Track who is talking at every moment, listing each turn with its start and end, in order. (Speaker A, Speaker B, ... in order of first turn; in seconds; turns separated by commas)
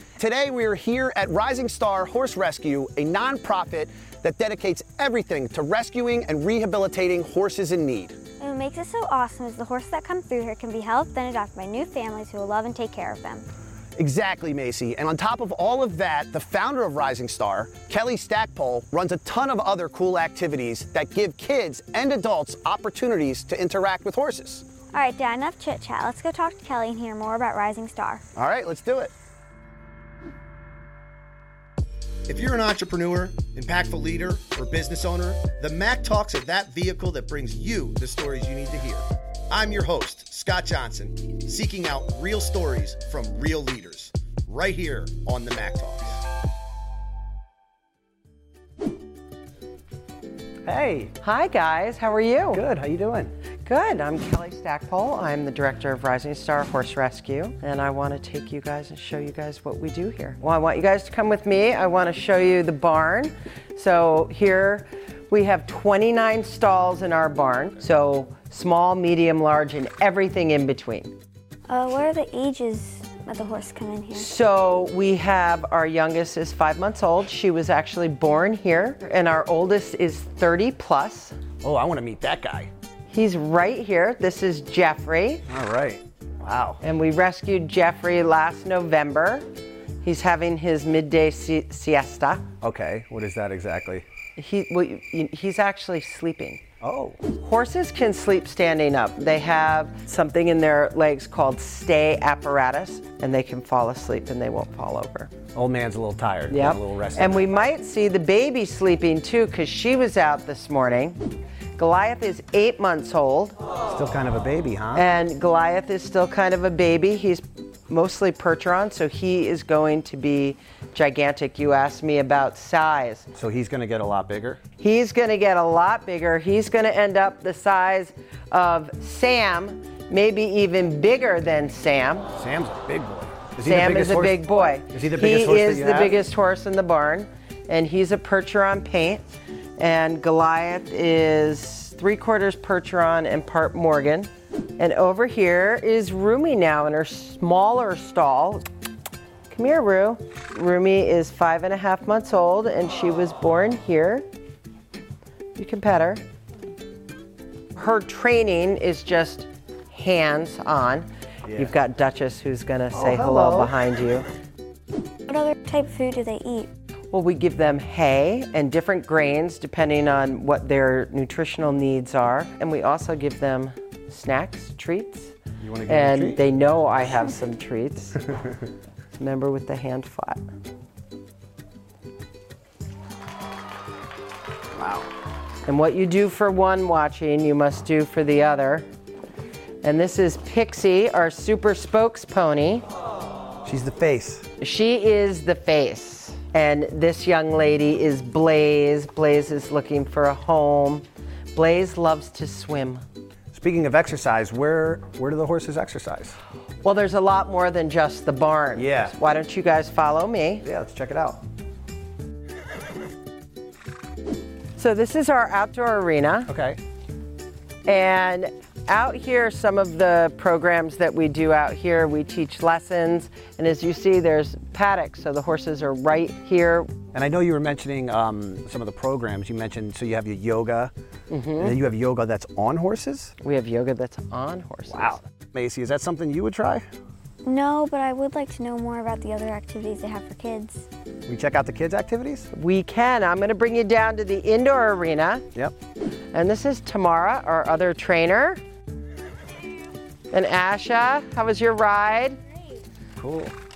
Speaker A: 0.2-8.2, Speaker B: 8.4-13.4, Speaker A: 14.0-24.6, Speaker B: 24.9-28.2, Speaker A: 28.4-29.1, Speaker A: 32.3-46.2, Speaker A: 50.7-51.1, Speaker C: 51.2-52.6, Speaker A: 52.5-53.3, Speaker C: 53.6-71.1, Speaker B: 71.7-74.3, Speaker C: 74.1-81.4, Speaker A: 81.6-82.7, Speaker C: 83.1-85.5, Speaker A: 85.5-86.8, Speaker C: 86.8-89.5, Speaker C: 90.0-92.5, Speaker A: 92.6-94.0, Speaker C: 94.4-96.6, Speaker A: 96.8-97.2, Speaker C: 97.4-105.3, Speaker A: 105.5-107.5, Speaker C: 106.5-111.2, Speaker C: 111.8-113.6, Speaker A: 113.9-115.0, Speaker C: 114.9-123.3, Speaker A: 123.4-124.6, Speaker C: 124.8-132.3, Speaker A: 132.3-136.2, Speaker C: 133.6-139.2, Speaker C: 139.8-148.6, Speaker C: 149.5-154.3, Speaker C: 155.6-156.2, Speaker C: 157.8-164.3, Speaker A: 162.9-163.8, Speaker B: 165.3-166.7, Speaker C: 167.1-175.3, Speaker A: 175.6-176.4, Speaker C: 175.9-178.3, Speaker C: 179.2-180.4, Speaker A: 184.8-185.1, Speaker C: 185.7-188.9, Speaker C: 189.8-192.8, Speaker A: 193.6-194.5, Speaker C: 194.6-203.0, Speaker A: 203.5-206.4, Speaker C: 206.8-210.7, Speaker A: 208.8-209.1, Speaker A: 210.6-211.4, Speaker C: 214.8-216.5, Speaker A: 216.5-216.8, Speaker C: 217.8-226.9, Speaker A: 227.1-230.9, Speaker C: 231.3-231.8, Speaker A: 231.6-233.3, Speaker C: 233.4-235.2, Speaker A: 234.9-236.8, Speaker B: 237.4-240.9, Speaker A: 241.3-242.5, Speaker C: 242.5-245.5, Speaker C: 246.3-248.6, Speaker C: 250.3-252.4, Speaker A: 253.2-253.6